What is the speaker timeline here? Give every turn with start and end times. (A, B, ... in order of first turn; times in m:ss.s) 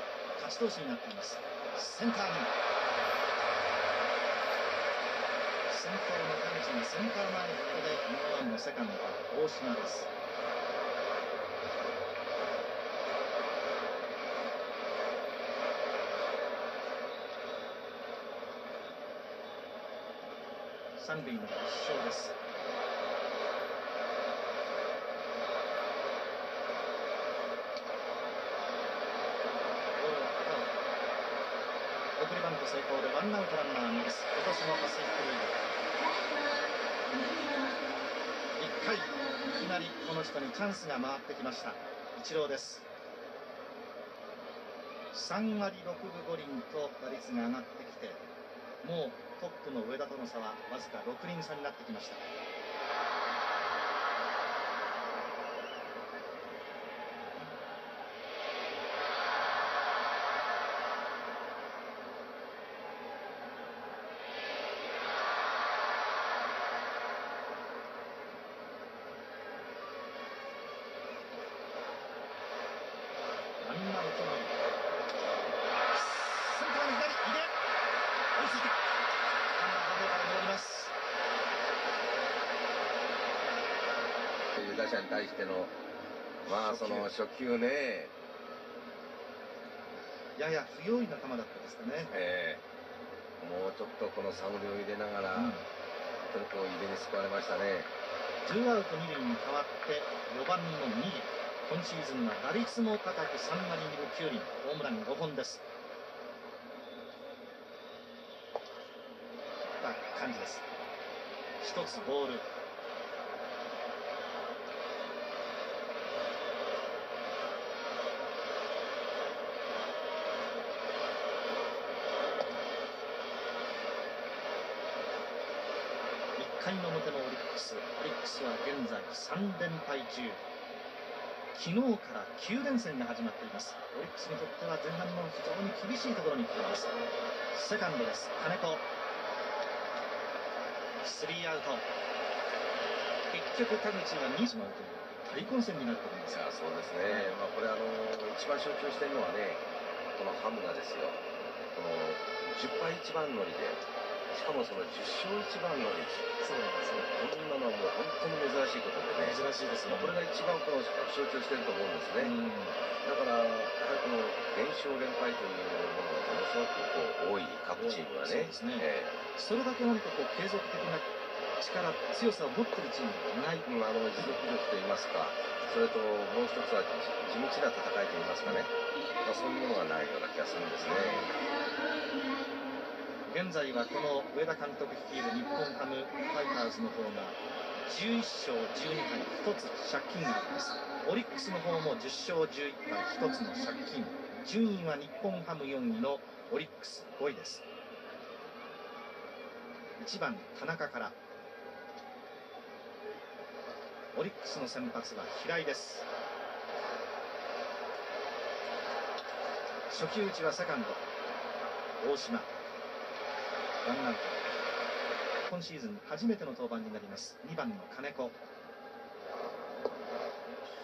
0:00.4-0:02.5 A
0:05.7-0:10.1 A
0:21.0-0:22.4 A
0:30.0-0:30.7 A
0:32.2-0:35.6 A
0:38.6-0:42.9 A
0:45.1-0:48.2 A
0:48.8-0:52.2 A
1:13.6-1:14.5 A
1:15.9-1:17.5 A
1:18.3-1:18.8 A
1:19.5-1:20.9 A
1:24.5-1:25.7 B
1:26.4-1:27.1 A
1:26.4-1:28.1 B
1:30.4-1:32.1 A
1:32.1-1:32.6 B
1:33.4-1:35.6 B
1:35.3-1:35.6 A
1:36.3-1:37.9 B
1:38.4-1:45.6 A
1:49.8-1:50.6 A
1:51.6-1:52.5 A
2:06.4-2:10.4 A
2:11.5-2:16.9 A
2:17.5-2:18.8 A
2:21.0-2:21.9 A
2:23.3-2:26.5 A
2:26.3-2:29.6 B
2:27.0-2:27.4 A
2:30.2-2:31.2 B
2:31.7-2:36.3 B
2:36.4-2:37.1 A
2:37.0-2:42.4 B
2:39.2-2:40.2 A
2:42.2-2:42.8 A
2:43.0-2:49.1 B
2:47.8-2:54.4 A
2:53.6-2:58.7 B
2:59.2-3:01.3 B
3:00.8-3:01.3 A
3:03.3-3:17.6 A
3:20.0-3:21.2 A
3:24.1-3:26.1 A
3:29.9-3:31.0 A
3:32.0-3:32.5 A
3:33.8-3:34.4 A
3:35.4-3:38.4 A